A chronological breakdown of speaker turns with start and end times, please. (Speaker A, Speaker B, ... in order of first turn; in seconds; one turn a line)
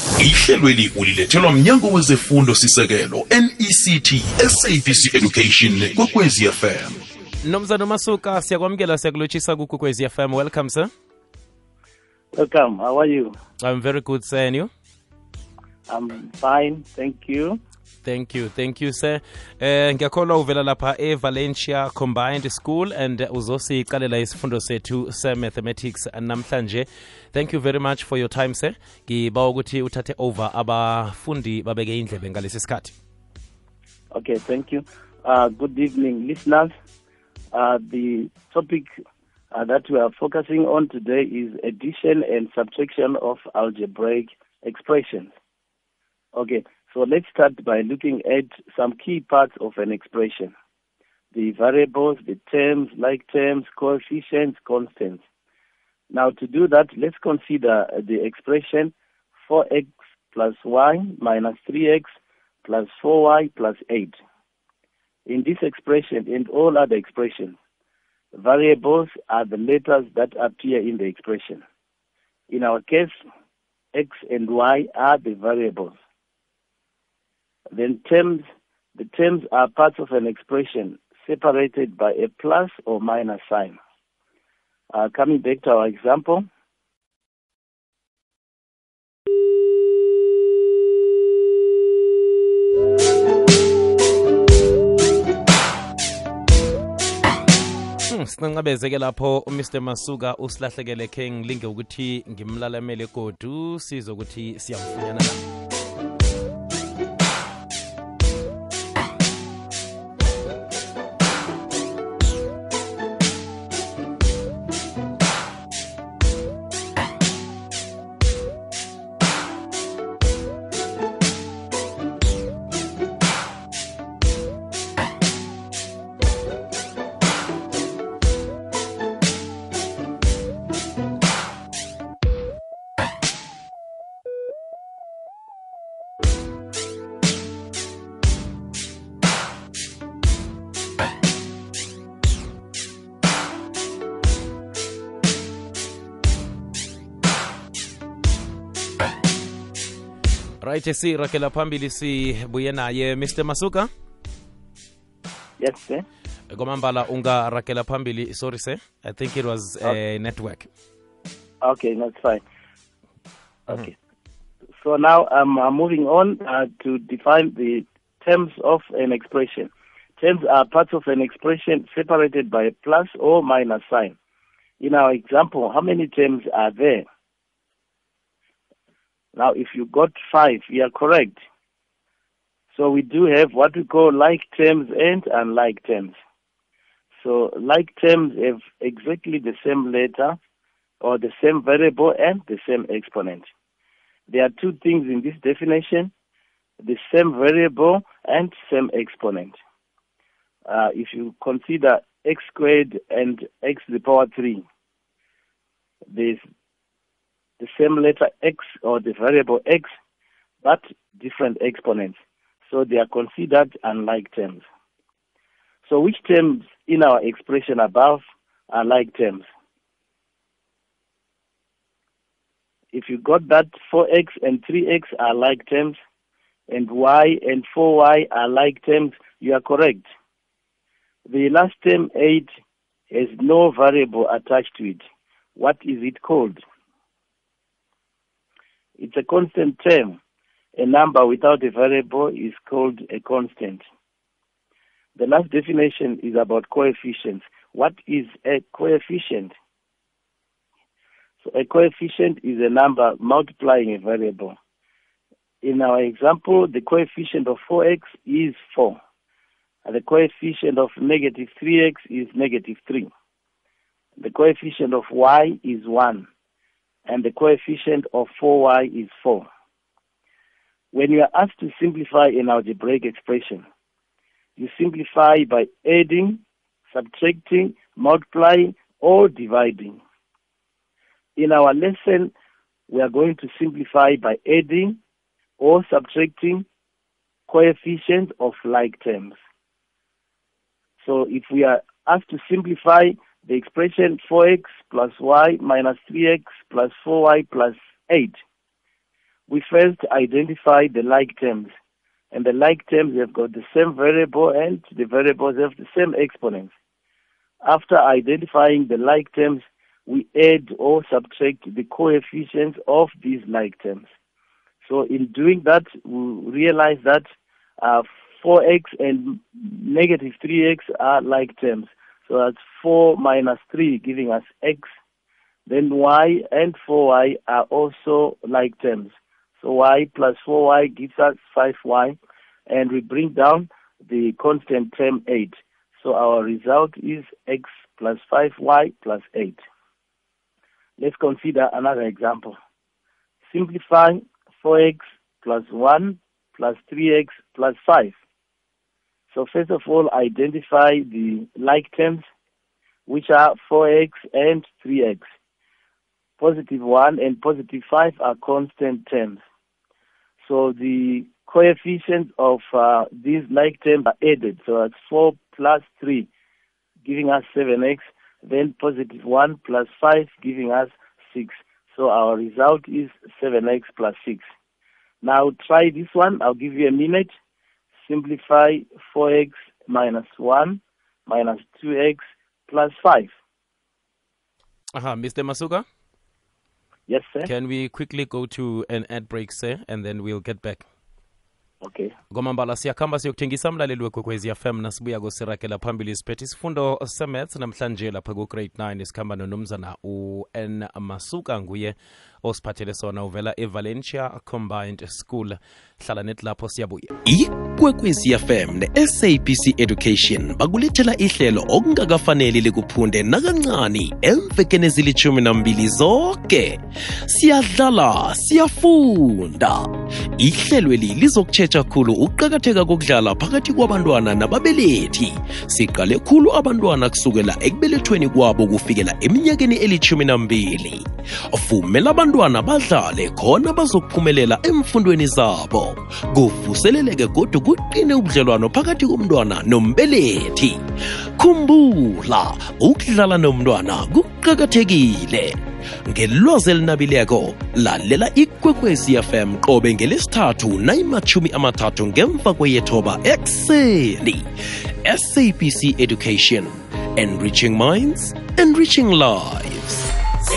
Speaker A: 0.2-7.0
Speaker B: 7.4-10.9
Speaker C: 12.3-13.4
Speaker B: 13.6-14.7
Speaker C: 15.9-17.6
Speaker B: 18.0-32.9
Speaker C: 34.1-36.7
Speaker C: 37.5-38.9
Speaker C: 39.5-45.3
Speaker C: 46.3-50.5
Speaker C: 51.3-55.2
Speaker C: 56.1-58.9
Speaker C: 59.4-62.1
Speaker C: 62.6-64.2
Speaker C: 65.3-67.6
Speaker C: 68.3-71.6
Speaker C: 72.5-73.1
Speaker C: 73.9-76.0
Speaker C: 77.7-78.5
Speaker C: 79.0-83.8
Speaker C: 84.9-86.5
Speaker B: 98.1-105.4
Speaker B: 150.6-153.9
Speaker C: 155.6-156.1
Speaker B: 156.5-160.7
Speaker C: 161.6-162.4
Speaker C: 164.8-174.2
Speaker C: 174.8-177.1
Speaker C: 179.3-181.4
Speaker C: 182.7-186.2
Speaker C: 187.2-190.4
Speaker C: 191.0-193.5
Speaker C: 194.3-196.1
Speaker C: 196.8-199.6
Speaker C: 200.7-204.6
Speaker C: 206.1-206.4
Speaker C: 207.6-209.9
Speaker C: 210.6-214.6
Speaker C: 215.9-219.4
Speaker C: 222.9-226.0
Speaker C: 226.7-230.1
Speaker C: 231.3-232.5
Speaker C: 233.1-235.0
Speaker C: 235.6-236.6
Speaker C: 239.0-240.2
Speaker C: 240.8-243.8
Speaker C: 245.2-249.5
Speaker C: 251.4-254.6
Speaker C: 255.6-259.0
Speaker C: 259.9-263.1
Speaker C: 264.2-266.3
Speaker C: 267.1-269.5
Speaker C: 270.9-273.6
Speaker C: 274.6-280.0
Speaker C: 281.4-282.3
Speaker C: 282.9-285.0
Speaker C: 285.6-286.6
Speaker C: 287.5-289.4
Speaker C: 291.0-298.4
Speaker C: 299.5-301.7
Speaker C: 302.3-306.7
Speaker C: 307.6-314.1
Speaker C: 314.9-317.2
Speaker C: 317.8-324.9
Speaker C: 325.7-332.2
Speaker C: 332.7-339.6
Speaker C: 341.0-342.6
Speaker C: 343.5-348.2
Speaker C: 349.3-352.2
Speaker C: 353.1-355.2
Speaker C: 356.4-359.4
Speaker C: 360.4-366.3
Speaker C: 367.1-374.4
Speaker C: 375.2-377.3
Speaker C: 378.0-383.3
Speaker B: 384.9-385.9
Speaker C: 387.1-387.5
Speaker B: 387.4-390.9
Speaker C: 391.8-392.1
Speaker B: 392.3-407.1
Speaker D: 407.2-440.8
Speaker D: 441.4-454.5
Speaker D: 455.0-460.1